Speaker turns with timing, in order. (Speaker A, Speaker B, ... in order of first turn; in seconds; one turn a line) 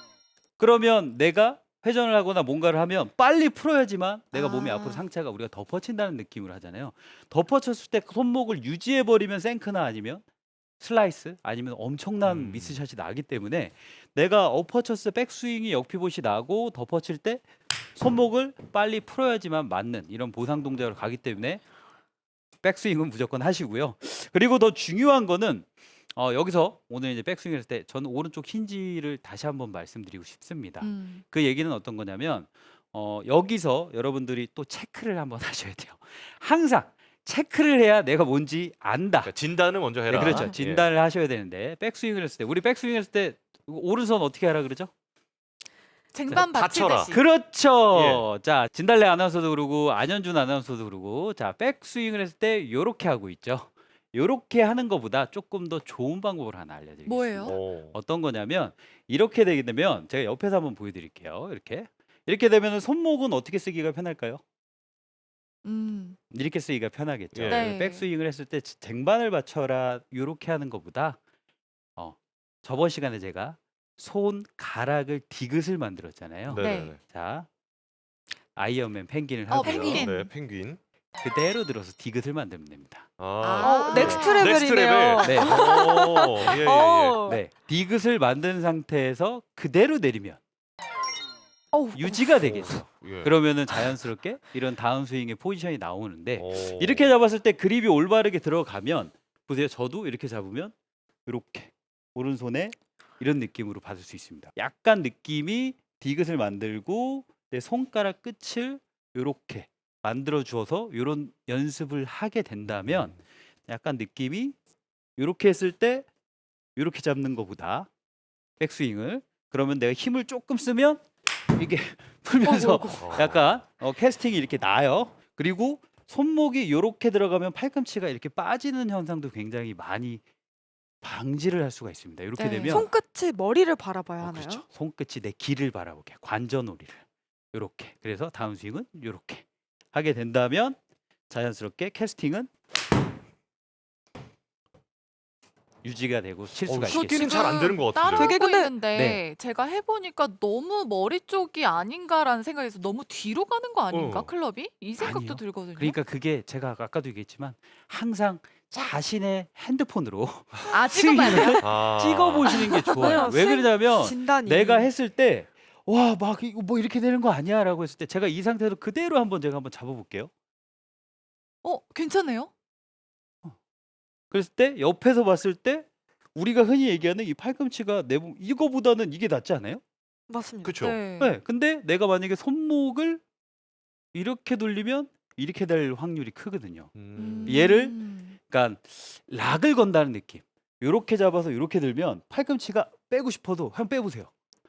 Speaker A: 0.6-10.2
Speaker B: 4.5-5.1
Speaker A: 10.8-17.4
Speaker C: 12.2-12.8
Speaker A: 17.9-21.6
Speaker A: 22.6-39.3
Speaker B: 30.8-31.2
Speaker C: 39.2-40.9
Speaker A: 40.1-44.9
Speaker B: 40.2-40.6
Speaker B: 46.1-47.2
Speaker C: 46.3-47.1
Speaker A: 47.0-64.4
Speaker C: 47.9-48.3
Speaker B: 57.0-57.6
Speaker C: 57.4-58.0
Speaker B: 65.6-66.2
Speaker A: 66.3-71.2
Speaker C: 67.3-67.7
Speaker B: 67.5-68.1
Speaker A: 72.0-77.5
Speaker C: 76.5-77.0
Speaker B: 76.5-76.9
Speaker A: 78.5-80.1
Speaker B: 79.5-80.3
Speaker C: 79.6-80.8
Speaker A: 81.2-83.1
Speaker C: 83.2-87.2
Speaker B: 83.4-84.5
Speaker D: 83.6-87.4
Speaker A: 84.0-84.2
Speaker A: 85.2-85.7
Speaker A: 87.2-90.4
Speaker D: 91.7-92.7
Speaker A: 91.9-100.7
Speaker C: 92.4-93.3
Speaker C: 96.4-97.1
Speaker A: 101.2-114.5
Speaker A: 115.2-116.1
Speaker A: 116.8-117.9
Speaker A: 118.6-130.2
Speaker D: 122.4-123.1
Speaker C: 123.0-123.6
Speaker A: 131.0-132.9
Speaker B: 132.4-132.9
Speaker D: 132.7-134.6
Speaker A: 134.2-140.8
Speaker A: 141.3-142.5
Speaker A: 145.8-147.5
Speaker C: 146.7-148.3
Speaker B: 146.8-156.0
Speaker D: 148.1-148.7
Speaker A: 148.9-149.2
Speaker C: 153.9-154.3
Speaker A: 155.0-170.3
Speaker B: 160.7-161.7
Speaker C: 161.6-162.6
Speaker D: 162.4-164.9
Speaker B: 162.8-163.2
Speaker B: 171.6-172.5
Speaker A: 174.3-179.8
Speaker D: 180.3-180.8
Speaker C: 180.6-181.0
Speaker B: 180.8-181.3
Speaker A: 181.2-183.2
Speaker A: 184.1-186.9
Speaker C: 186.9-187.6
Speaker B: 187.2-188.4
Speaker A: 187.4-194.3